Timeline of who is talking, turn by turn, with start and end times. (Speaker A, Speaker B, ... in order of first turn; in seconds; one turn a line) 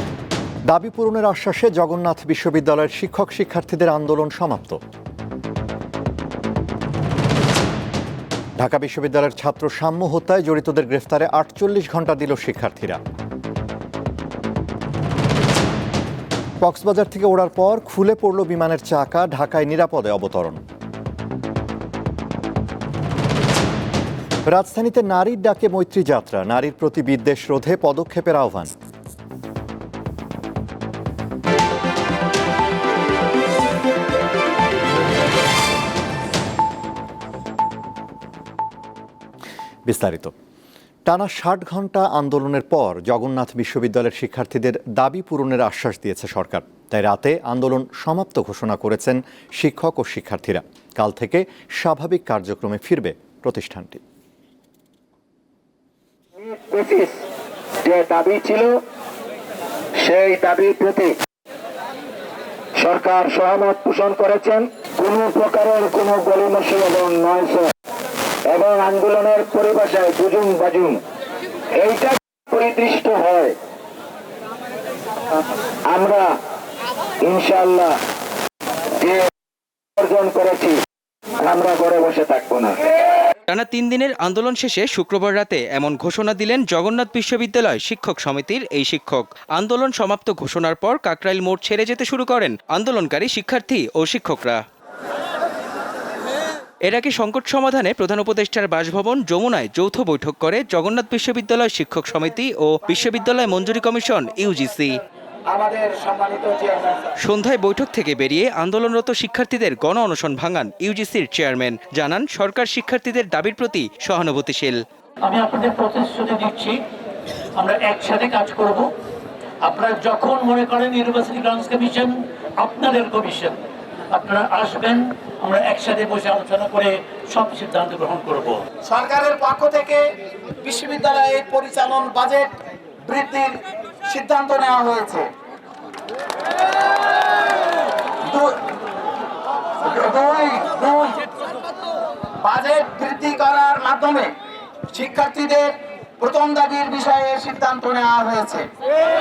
Speaker A: 0.7-4.8
Speaker A: 8.6-13.0
Speaker A: 16.6-20.6
Speaker A: 24.4-28.7
Speaker A: 39.9-40.3
Speaker A: 41.1-54.0
Speaker B: 56.7-57.1
Speaker B: 57.9-58.7
Speaker B: 60.1-61.1
Speaker B: 62.8-67.6
Speaker B: 68.5-70.9
Speaker B: 71.8-73.5
Speaker B: 76.0-76.2
Speaker B: 77.3-77.9
Speaker B: 80.0-80.7
Speaker B: 81.5-82.7
Speaker C: 83.5-94.6
Speaker C: 96.8-105.0
Speaker D: 105.5-107.0
Speaker C: 107.2-114.8
Speaker E: 115.2-116.8
Speaker E: 117.6-118.9
Speaker E: 119.6-128.6
Speaker D: 128.8-130.0
Speaker D: 130.6-132.5
Speaker D: 133.0-135.3
Speaker D: 139.8-141.2
Speaker D: 142.4-144.3
Speaker D: 144.9-148.7